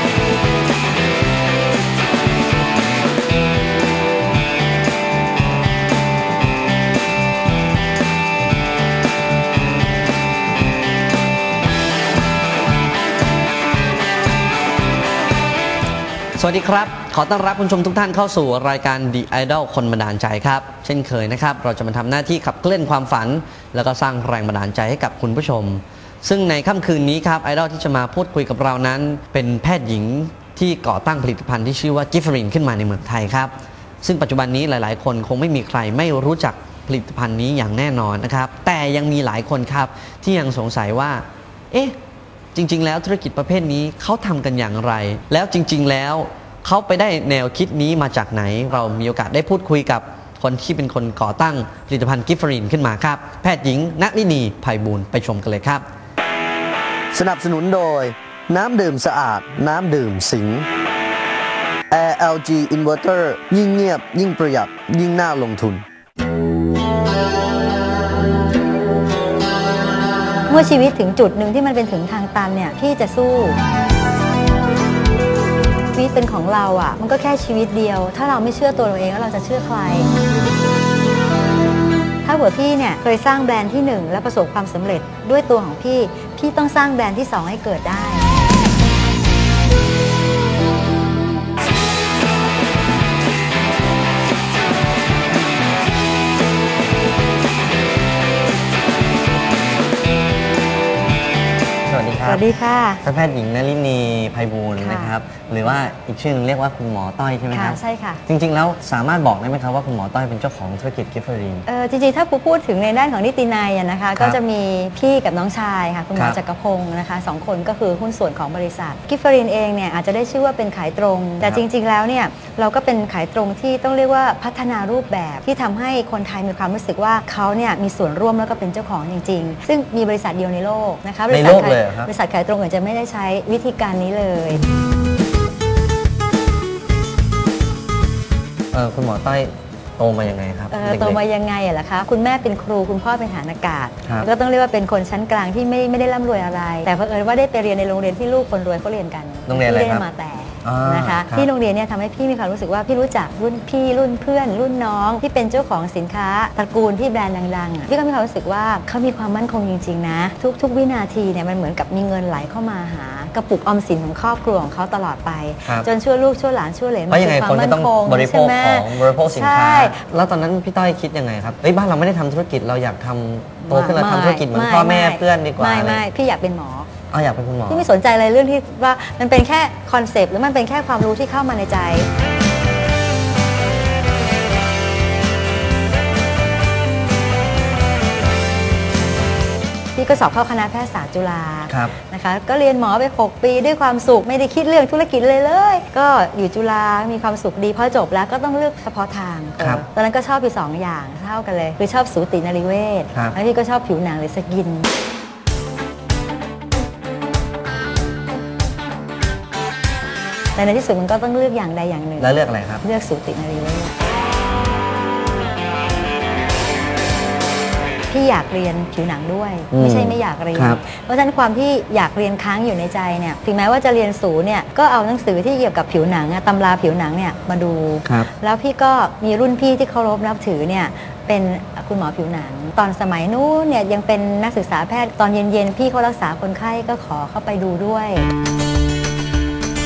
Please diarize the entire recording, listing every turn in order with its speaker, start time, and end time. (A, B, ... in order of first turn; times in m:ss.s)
0:16.4-0:42.0 A
0:42.6-0:55.8 A
0:57.1-1:00.7 B
1:01.9-1:05.8 B
1:10.5-1:13.6 C
1:15.9-1:20.1 C
1:22.2-1:28.4 C
1:41.9-1:42.5 A
1:42.2-1:43.0 C
1:43.0-1:51.6 A
1:44.8-1:45.2 C
1:47.5-1:48.2 C
1:51.7-2:14.6 C
2:11.3-2:12.1 A
2:18.7-2:21.2 A
2:20.7-2:50.0 C
2:29.5-2:30.0 A
2:30.6-2:31.5 A
2:47.1-2:56.0 A
2:53.7-2:56.9 C
2:57.1-2:57.9 A
2:57.7-3:02.1 C
3:10.0-3:24.9 C
3:11.7-3:12.0 A
3:19.6-3:19.8 A
3:30.6-3:34.0 C
3:32.2-3:32.8 A
3:38.1-3:58.3 C
3:39.7-3:40.8 A